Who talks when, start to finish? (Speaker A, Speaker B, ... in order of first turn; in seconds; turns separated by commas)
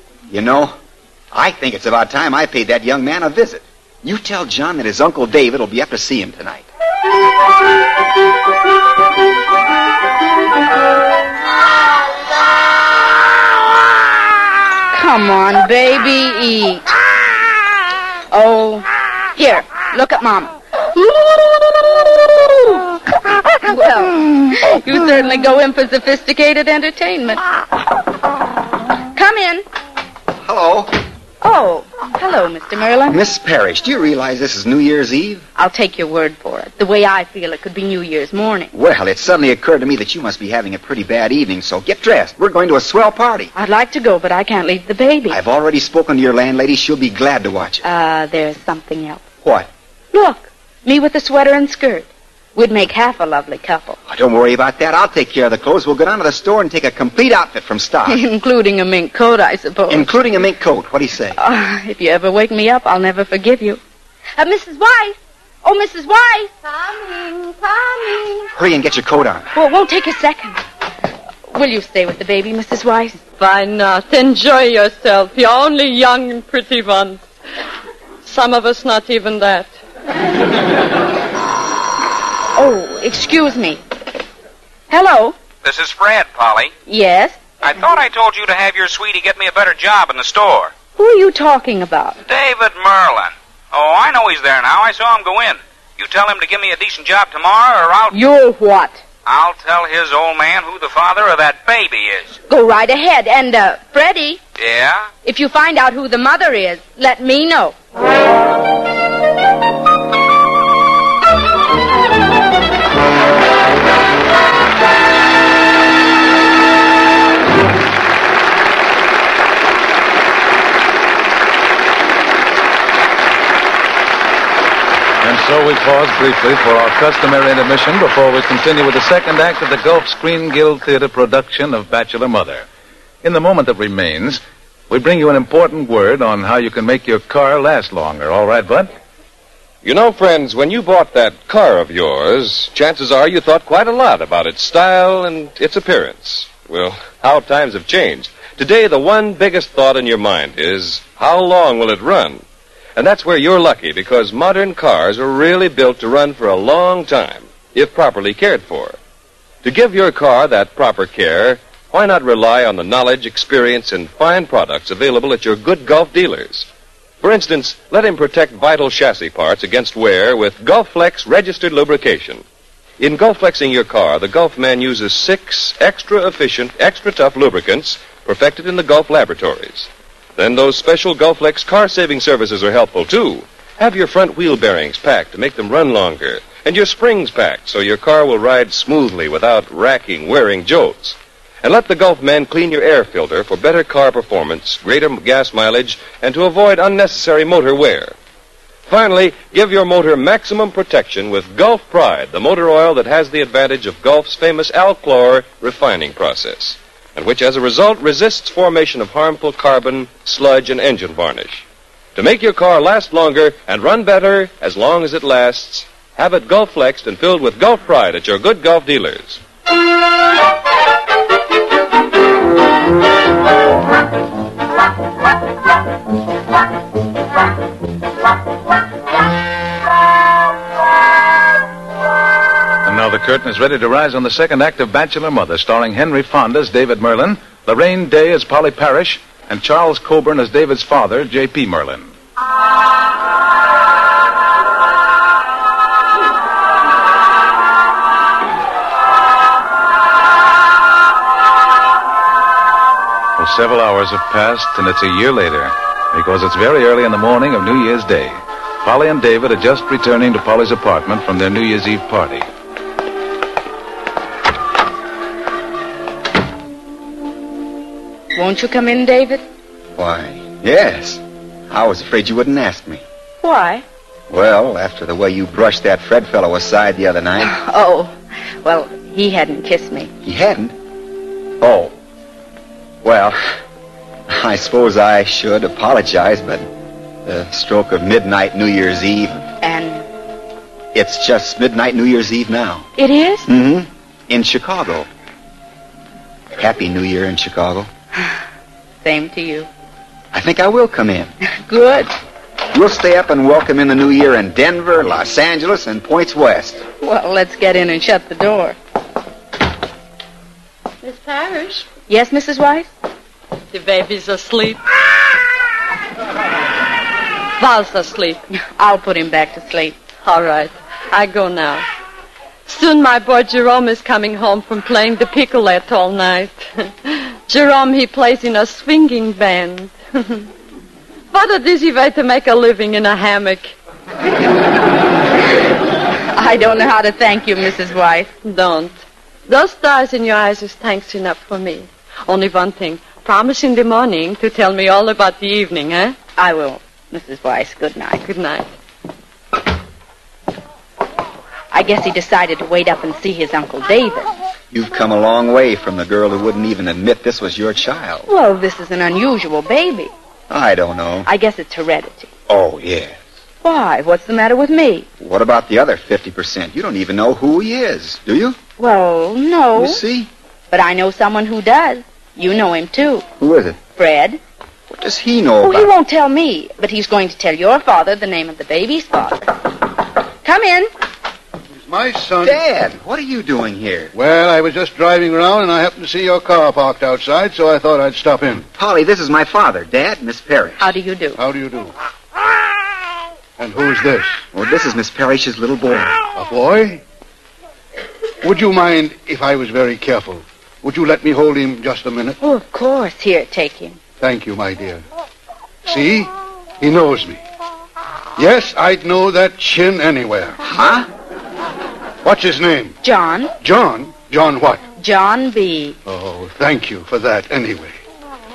Speaker A: 0.3-0.7, Speaker A: 1.3-6.7, Speaker B: 14.9-16.9, Speaker B: 18.3-23.0, Speaker B: 23.6-27.4, Speaker B: 29.1-29.6, Speaker A: 30.4-31.0, Speaker B: 31.4-33.2, Speaker A: 33.1-35.4, Speaker B: 35.5-38.7, Speaker A: 38.7-43.5, Speaker B: 43.5-45.4, Speaker A: 45.3-47.8, Speaker B: 47.8-49.2, Speaker A: 49.4-49.7, Speaker B: 50.1-54.0, Speaker A: 54.1-58.2, Speaker B: 58.1-60.2, Speaker A: 59.9-61.4, Speaker B: 61.4-63.8, Speaker B: 64.4-66.5, Speaker C: 66.7-68.5, Speaker A: 68.5-69.5, Speaker B: 69.5-70.6, Speaker B: 71.5-73.2, Speaker C: 73.4-77.3, Speaker C: 78.2-79.7, Speaker B: 82.5-83.8, Speaker B: 84.9-85.3, Speaker D: 85.6-86.7, Speaker B: 86.9-87.4, Speaker D: 87.6-90.7, Speaker B: 91.0-92.2, Speaker D: 92.3-98.2, Speaker B: 98.1-99.0, Speaker D: 99.2-102.4, Speaker B: 102.5-104.4, Speaker D: 104.6-105.0, Speaker B: 105.2-107.7, Speaker E: 125.2-132.7, Speaker E: 133.2-138.9, Speaker F: 139.8-152.4, Speaker F: 152.9-159.0, Speaker F: 159.6-166.7, Speaker F: 167.2-172.4, Speaker F: 173.0-198.1, Speaker F: 198.9-211.6, Speaker F: 212.1-219.4, Speaker E: 232.8-242.1, Speaker E: 253.4-262.4, Speaker B: 268.3-269.4, Speaker A: 270.0-273.0, Speaker B: 273.4-273.8, Speaker A: 274.3-277.5, Speaker B: 277.4-278.1, Speaker B: 278.6-280.1, Speaker A: 280.2-280.7, Speaker A: 281.6-281.9, Speaker A: 283.0-283.4, Speaker A: 284.3-286.6, Speaker A: 287.2-289.4, Speaker B: 289.6-290.0, Speaker A: 290.9-292.9, Speaker B: 293.0-293.5, Speaker A: 293.5-295.1, Speaker A: 296.6-297.9, Speaker B: 299.0-299.7, Speaker A: 300.3-301.3, Speaker B: 301.7-302.1, Speaker A: 302.7-306.9, Speaker B: 307.0-308.8, Speaker C: 311.0-311.9, Speaker B: 312.1-312.9, Speaker C: 313.7-314.8, Speaker C: 317.6-318.4, Speaker B: 318.8-319.9, Speaker C: 320.2-321.8, Speaker C: 322.6-330.5, Speaker C: 331.3-333.8, Speaker B: 336.3-338.3, Speaker C: 338.4-338.9, Speaker C: 339.5-346.1, Speaker B: 346.4-348.2, Speaker C: 348.2-348.6, Speaker B: 351.7-354.3, Speaker A: 354.7-358.3, Speaker B: 358.3-360.1, Speaker A: 360.5-361.3, Speaker B: 361.2-362.3, Speaker A: 362.5-363.1, Speaker B: 363.6-365.1, Speaker A: 365.2-368.6, Speaker B: 368.8-370.0, Speaker A: 369.7-370.3, Speaker B: 370.7-373.2, Speaker A: 373.4-373.8, Speaker B: 373.9-374.4, Speaker A: 374.9-375.9, Speaker B: 375.6-379.5, Speaker B: 380.4-380.9, Speaker G: 381.9-382.6, Speaker A: 382.4-384.1, Speaker G: 384.1-388.6, Speaker A: 388.8-390.9, Speaker B: 390.8-391.4, Speaker G: 391.4-391.9, Speaker G: 393.6-394.3, Speaker A: 394.5-396.2, Speaker G: 396.3-397.0, Speaker G: 398.4-402.4, Speaker B: 402.4-404.0, Speaker G: 404.2-405.0, Speaker G: 405.9-407.4, Speaker G: 408.4-410.6, Speaker A: 410.6-411.1, Speaker G: 412.2-413.0, Speaker B: 413.0-413.5, Speaker G: 413.6-414.8, Speaker B: 415.0-416.0, Speaker G: 416.1-417.9